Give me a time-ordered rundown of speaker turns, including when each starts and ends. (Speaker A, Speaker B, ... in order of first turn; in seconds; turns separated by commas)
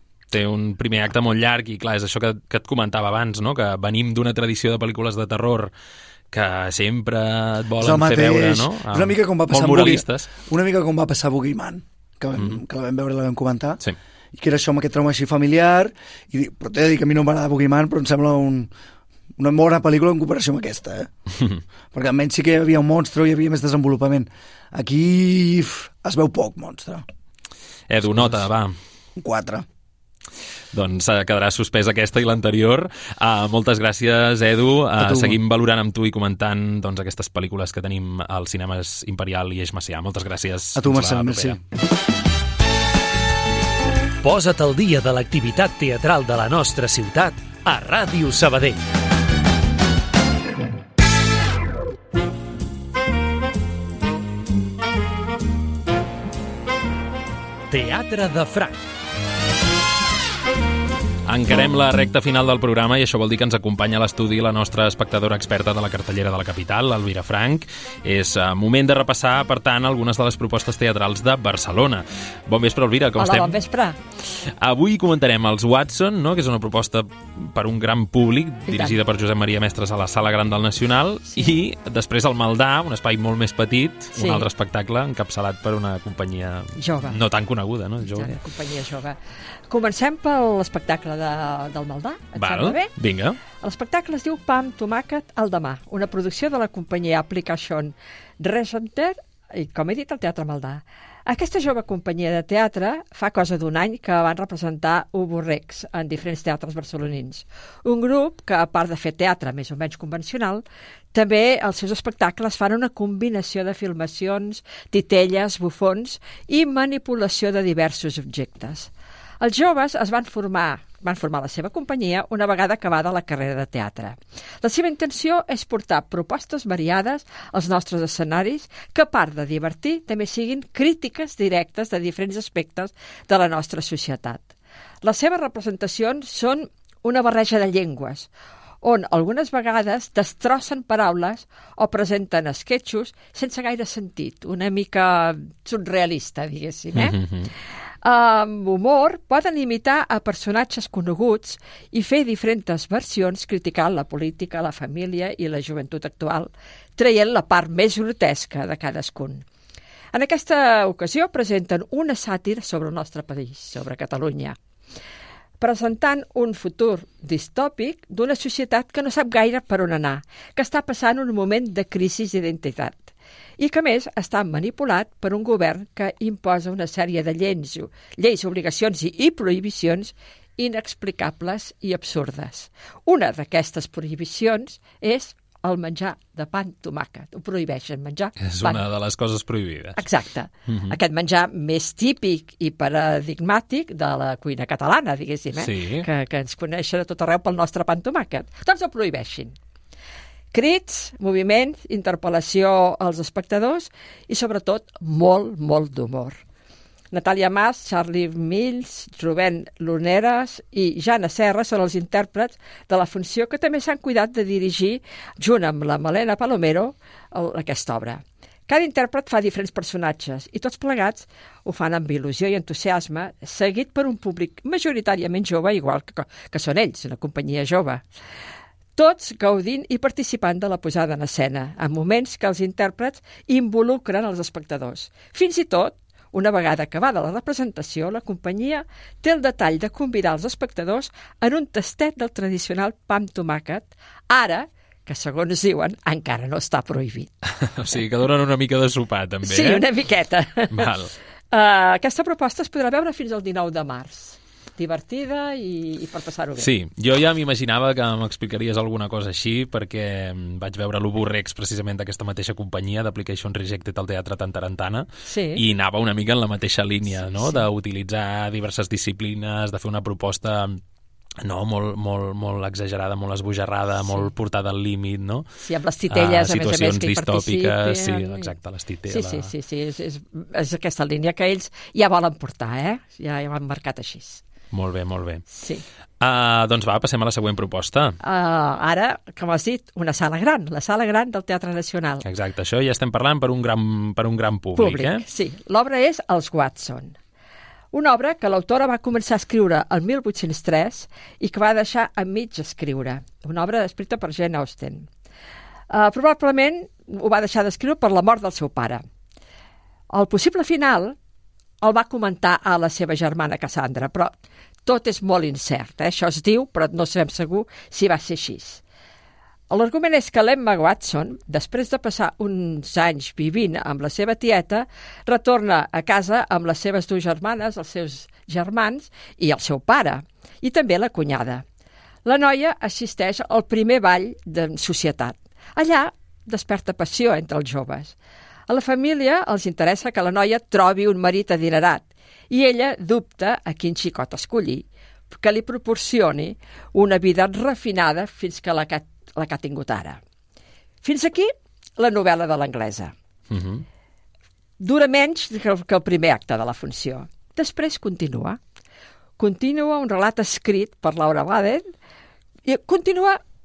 Speaker A: 0.3-5.7, Speaker A: 6.3-10.3, Speaker B: 7.8-13.8, Speaker B: 14.3-18.7, Speaker B: 19.4-21.1, Speaker B: 21.9-27.0, Speaker A: 27.9-28.8, Speaker B: 29.2-29.6, Speaker A: 30.7-41.6, Speaker B: 35.0-35.4, Speaker B: 40.7-41.6, Speaker C: 44.2-48.8, Speaker C: 57.7-58.8, Speaker A: 61.3-73.6, Speaker D: 73.2-74.0, Speaker A: 74.4-88.4, Speaker D: 78.7-79.0, Speaker D: 81.3-81.5, Speaker D: 84.1-84.5, Speaker D: 86.8-87.2, Speaker D: 88.0-89.2, Speaker D: 89.7-92.9, Speaker A: 92.3-93.4, Speaker D: 93.5-134.5, Speaker D: 135.0-138.3, Speaker D: 138.8-147.2, Speaker A: 146.9-147.5, Speaker D: 148.0-159.4, Speaker D: 160.1-164.6, Speaker D: 165.6-188.8, Speaker A: 188.4-190.0, Speaker D: 189.9-199.6, Speaker A: 190.7-191.0, Speaker A: 195.5-196.1, Speaker D: 200.5-206.4, Speaker D: 207.1-228.1, Speaker D: 228.9-247.3, Speaker A: 247.6-249.9, Speaker D: 249.4-251.0, Speaker A: 250.7-251.1, Speaker D: 251.5-256.7, Speaker A: 256.6-270.8, Speaker D: 265.3-265.6, Speaker D: 267.1-267.6, Speaker A: 271.4-275.4, Speaker D: 274.0-274.3, Speaker D: 275.6-278.5, Speaker A: 276.1-279.5, Speaker D: 279.1-284.4, Speaker A: 284.7-285.4, Speaker D: 285.5-285.8, Speaker A: 286.2-288.2, Speaker D: 288.2-292.2, Speaker A: 292.2-295.2, Speaker D: 294.8-297.1, Speaker D: 297.9-305.1, Speaker D: 305.9-309.0, Speaker D: 310.1-311.2, Speaker D: 311.8-318.8, Speaker D: 319.7-331.6, Speaker D: 332.2-338.1, Speaker D: 338.7-350.2, Speaker D: 351.0-353.1, Speaker A: 353.5-353.8, Speaker D: 354.8-358.6, Speaker D: 359.4-361.9, Speaker D: 362.7-363.4